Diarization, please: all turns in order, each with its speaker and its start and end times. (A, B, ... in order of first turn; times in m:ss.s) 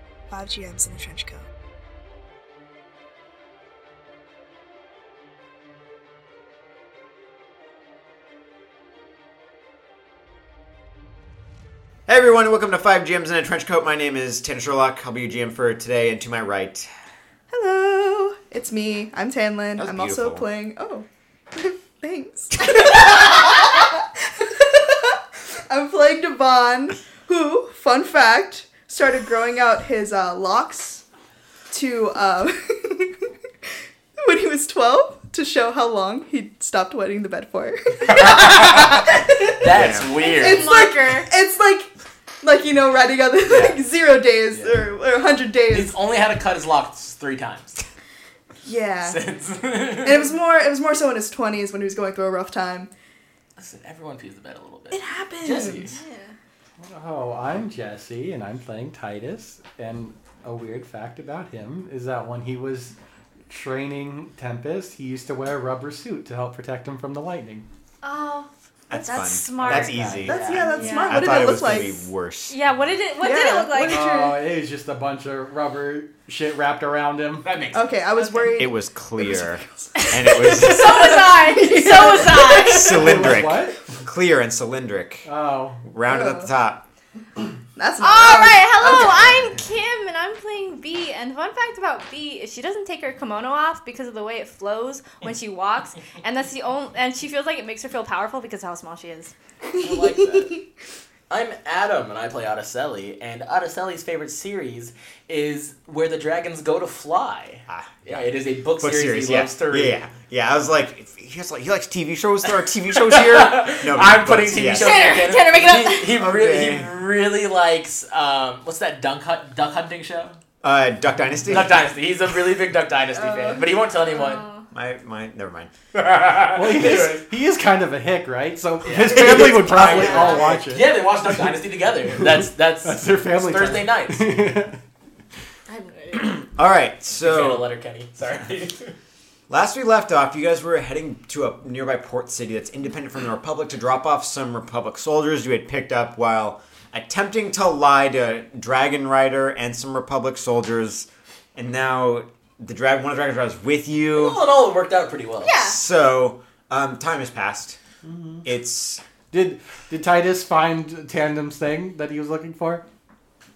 0:00.3-0:01.5 A
0:12.1-0:16.9 B
0:17.5-0:31.0 A
0:19.8-0:20.5 B
0:31.7-0:33.2 A
0:34.2-0:41.9 A
0:38.1-0:40.7 C
0:39.7-0:40.1 B
0:40.2-0:41.3 D
0:42.4-0:45.9 A
0:43.4-0:43.8 C
0:44.5-0:44.8 C
0:45.7-0:47.8 C
0:48.6-0:49.2 A
0:49.0-0:50.3 C
0:50.0-0:52.9 A
0:53.6-0:56.0 C
0:54.9-0:55.8 A
0:55.9-0:56.3 D
0:56.8-1:03.0 E
1:03.5-1:07.7 E
1:08.0-1:11.7 D
1:08.9-1:12.6 B
1:08.9-1:09.3 A
1:09.6-1:10.8 C
1:10.1-1:12.1 A
1:12.5-1:14.1 D
1:13.2-1:14.4 A
1:13.8-1:17.6 E
1:17.4-1:18.5 C
1:17.7-1:22.7 A
1:18.6-1:21.3 B
1:20.2-1:23.1 D
1:22.6-1:25.3 B
1:22.9-1:24.0 E
1:25.2-1:25.8 E
1:25.8-1:26.8 B
1:26.0-1:26.5 A
1:27.8-1:29.3 A
1:28.0-1:39.3 D
1:39.8-1:40.6 C
1:41.3-1:50.0 C
1:47.7-1:55.1 B
1:52.9-2:00.4 C
1:54.7-1:56.2 D
1:56.1-1:57.0 B
2:00.6-2:01.8 B
2:01.3-2:01.6 E
2:01.5-2:04.5 C
2:03.1-2:03.7 A
2:03.9-2:04.7 D
2:04.7-2:05.7 B
2:05.9-2:07.3 C
2:06.5-2:11.0 E
2:08.8-2:14.3 C
2:09.3-2:09.9 B
2:09.7-2:10.6 D
2:12.2-2:14.8 E
2:15.7-2:16.4 D
2:16.1-2:17.7 B
2:17.2-2:19.0 C
2:19.5-2:34.4 B
2:34.1-2:35.6 C
2:35.4-2:35.8 D
2:35.6-2:37.8 B
2:38.0-2:38.5 E
2:38.4-2:39.0 B
2:39.3-2:42.8 E